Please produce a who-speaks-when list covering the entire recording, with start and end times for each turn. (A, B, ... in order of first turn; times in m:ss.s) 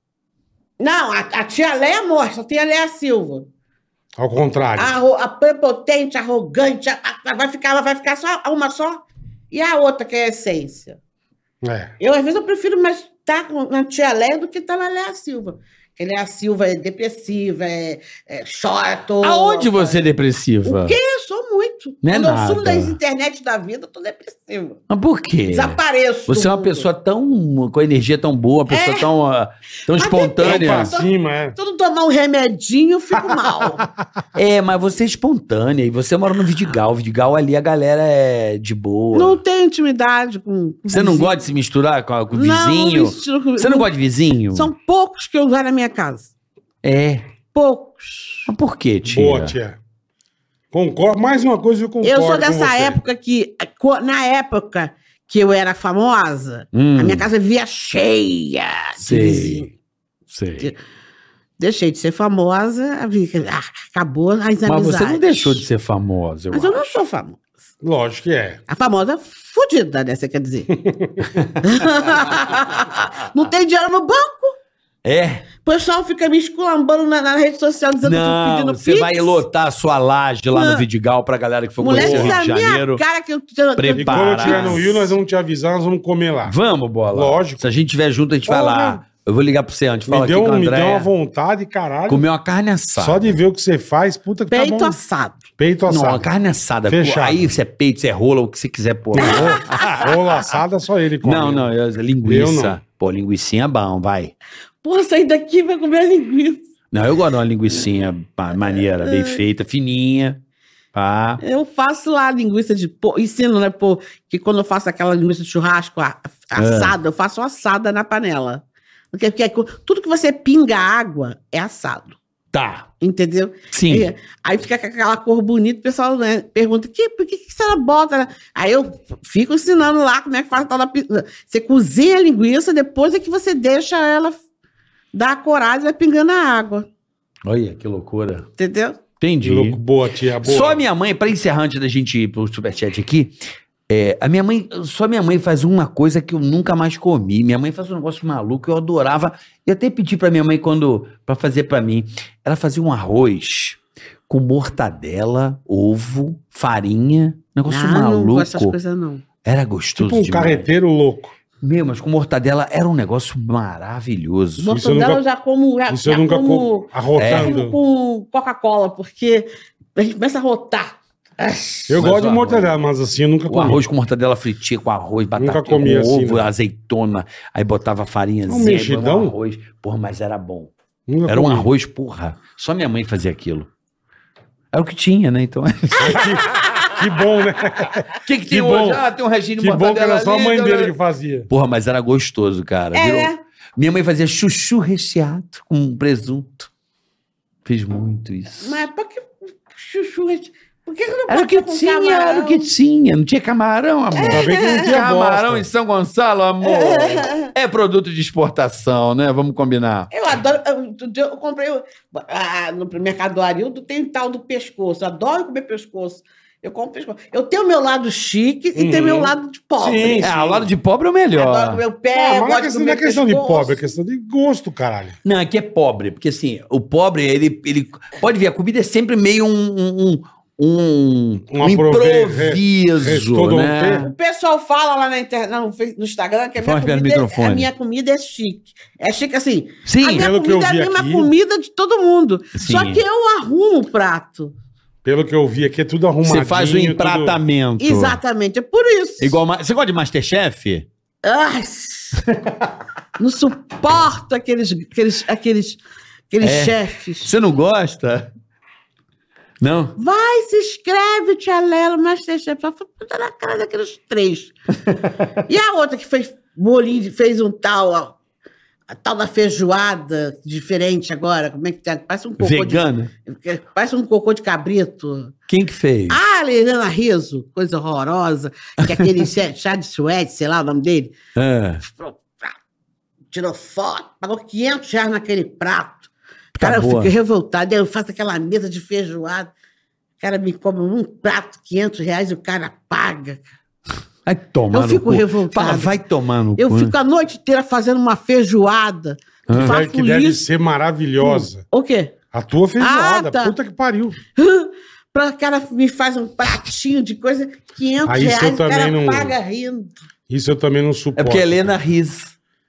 0:00.8-0:03.5 A
0:04.2-0:05.0 B
0:04.8-0:11.0 A
0:11.6-0:11.9 B
0:12.0-0:20.0 A
0:19.2-0:21.0 C
0:20.6-0:24.8 A
0:22.0-0:23.0 C
0:24.9-0:30.9 C
0:25.5-0:26.9 A
0:28.7-0:29.1 A
0:29.9-0:33.8 A
0:30.4-0:31.6 B
0:33.2-0:33.9 B
0:34.4-0:39.4 C
0:39.1-0:41.4 A
0:40.9-0:44.7 C
0:42.3-0:43.9 A
0:44.5-0:46.3 A
0:46.8-0:47.2 C
0:47.5-0:48.5 A
0:48.5-0:49.6 C
0:49.1-0:49.8 B
0:50.7-0:53.0 B
0:52.0-0:59.7 A
0:56.7-0:57.3 C
0:59.0-0:59.7 C
1:00.3-1:00.7 C
1:01.6-1:05.6 A
1:04.7-1:06.9 C
1:06.5-1:07.4 A
1:07.8-1:08.6 B
1:08.7-1:10.7 A
1:10.8-1:11.3 B
1:11.3-1:11.9 C
1:11.6-1:14.6 A
1:15.0-1:15.5 C
1:15.6-1:19.4 A
1:18.0-1:23.0 C
1:20.5-1:20.8 A
1:21.8-1:25.1 A
1:21.9-1:22.4 B
1:23.8-1:24.8 C
1:24.0-1:26.6 B
1:26.5-1:31.1 C
1:27.1-1:27.6 B
1:28.5-1:29.0 B
1:30.1-1:32.2 B
1:32.1-1:33.4 C
1:33.0-1:35.0 B
1:34.5-1:35.4 A
1:35.6-1:36.3 B
1:35.9-1:40.4 C
1:36.9-1:37.5 B
1:39.1-1:41.7 B
1:39.2-1:40.0 A
1:41.2-1:44.3 C
1:42.2-1:42.8 B
1:44.8-1:46.6 A
1:46.9-1:50.4 C
1:48.7-1:49.4 A
1:50.9-1:51.4 C
1:51.4-2:02.2 A
1:56.6-1:57.0 C
2:02.5-2:02.9 C
2:03.0-2:14.4 A
2:03.7-2:04.1 C
2:15.1-2:16.9 A
2:17.5-2:18.5 C
2:18.6-2:19.0 A
2:19.2-2:19.8 C
2:19.4-2:20.8 B
2:20.4-2:23.4 C
2:23.9-2:38.8 C
2:37.7-2:39.2 A
2:39.4-2:40.7 C
2:40.0-2:41.3 B
2:41.6-2:44.7 C
2:44.6-2:52.0 A
2:44.7-2:45.2 B
2:45.9-2:47.8 B
2:47.2-2:47.5 C
2:51.9-2:53.8 B
2:52.0-2:52.7 C
2:53.5-3:00.7 C
2:55.4-2:56.5 B
2:58.5-2:59.3 B
3:01.1-3:01.7 B
3:01.3-3:03.7 C
3:04.7-3:06.4 C
3:06.0-3:09.0 B
3:06.4-3:07.0 A
3:08.2-3:10.9 C
3:09.6-3:11.5 B
3:11.5-3:16.7 C
3:12.9-3:13.4 A
3:17.6-3:18.8 C
3:18.6-3:22.7 A
3:21.3-3:30.1 C
3:24.1-3:25.0 A
3:24.3-3:25.7 B
3:26.6-3:27.5 A
3:30.1-3:40.3 A
3:38.8-3:40.7 B
3:40.2-3:41.8 C
3:41.4-3:43.8 A
3:42.1-3:45.2 B
3:45.2-3:54.1 C
3:51.5-3:54.0 B
3:54.0-4:04.5 A
3:56.6-3:57.7 C
3:59.9-4:00.3 C
4:00.1-4:01.3 B
4:02.6-4:03.0 C
4:05.0-4:07.4 B
4:06.2-4:08.2 C
4:07.8-4:09.4 A
4:09.2-4:10.9 C
4:11.2-4:12.2 A
4:12.2-4:12.7 C
4:13.2-4:15.8 A
4:16.3-4:17.3 A
4:16.4-4:18.3 C
4:19.6-4:20.0 C
4:20.0-4:24.5 A
4:24.9-4:25.2 C
4:25.4-4:28.2 A
4:28.9-4:35.3 A
4:32.4-4:33.1 C
4:35.5-4:36.2 C
4:36.1-4:41.1 A
4:41.4-4:41.8 C
4:41.8-4:42.6 A
4:43.3-4:49.5 A
4:46.6-4:47.2 C
4:50.2-4:53.4 A
4:54.3-4:57.0 C
4:54.7-4:56.0 A
4:56.6-5:00.4 A
4:59.5-4:59.8 C
4:59.6-5:01.6 B
5:01.2-5:02.2 A
5:02.3-5:04.2 B
5:02.8-5:03.6 A
5:04.4-5:09.9 A
5:08.0-5:09.3 B
5:10.3-5:11.6 B
5:11.2-5:12.4 C